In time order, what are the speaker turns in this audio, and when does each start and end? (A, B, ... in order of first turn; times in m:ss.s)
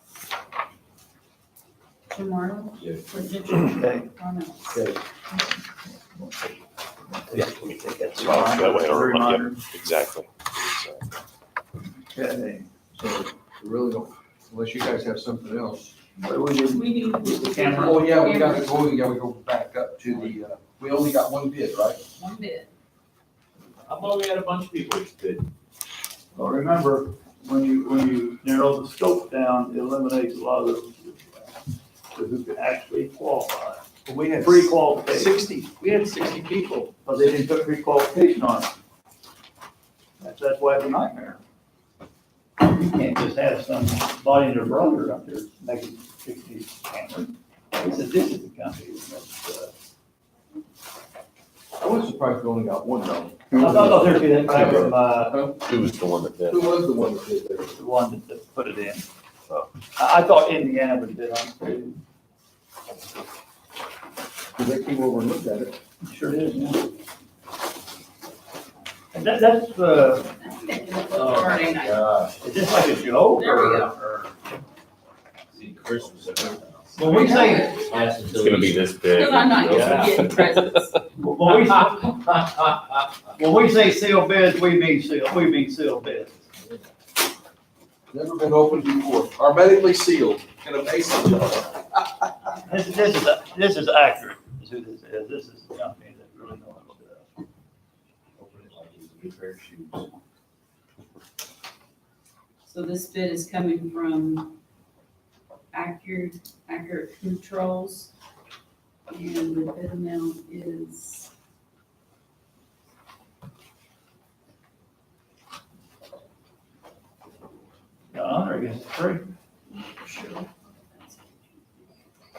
0:02.1-0:04.8 A
0:02.8-0:03.1 B
0:03.7-0:04.1 C
0:04.7-0:09.6 C
0:07.3-0:11.1 D
0:12.1-0:12.7 C
0:12.9-0:16.0 E
0:16.2-0:18.1 C
0:16.7-0:18.8 A
0:17.7-0:22.0 E
0:22.2-0:22.7 A
0:23.8-0:25.5 B
0:26.3-0:31.5 C
0:32.1-0:35.4 C
0:34.0-0:36.9 E
0:37.0-0:38.7 C
0:40.2-0:41.4 C
0:42.6-0:49.7 C
0:51.8-0:55.6 E
0:53.5-0:55.4 C
0:55.6-0:56.7 D
0:56.5-0:57.7 E
0:57.7-1:02.0 C
1:04.6-1:05.7 E
1:06.0-1:06.9 C
1:09.1-1:10.4 C
1:10.4-1:12.1 A
1:11.1-1:12.4 B
1:12.4-1:13.9 C
1:13.3-1:14.0 A
1:13.9-1:14.3 B
1:15.5-1:20.2 B
1:16.9-1:17.8 C
1:17.2-1:17.9 A
1:18.3-1:20.3 D
1:19.1-1:21.0 A
1:19.7-1:20.1 C
1:21.2-1:22.6 C
1:23.3-1:26.5 C
1:28.1-1:32.3 E
1:32.6-1:37.4 C
1:38.4-1:40.1 B
1:42.6-1:44.5 A
1:45.7-1:48.1 A
1:49.1-1:51.3 A
1:58.1-1:59.2 C
1:59.7-2:01.8 A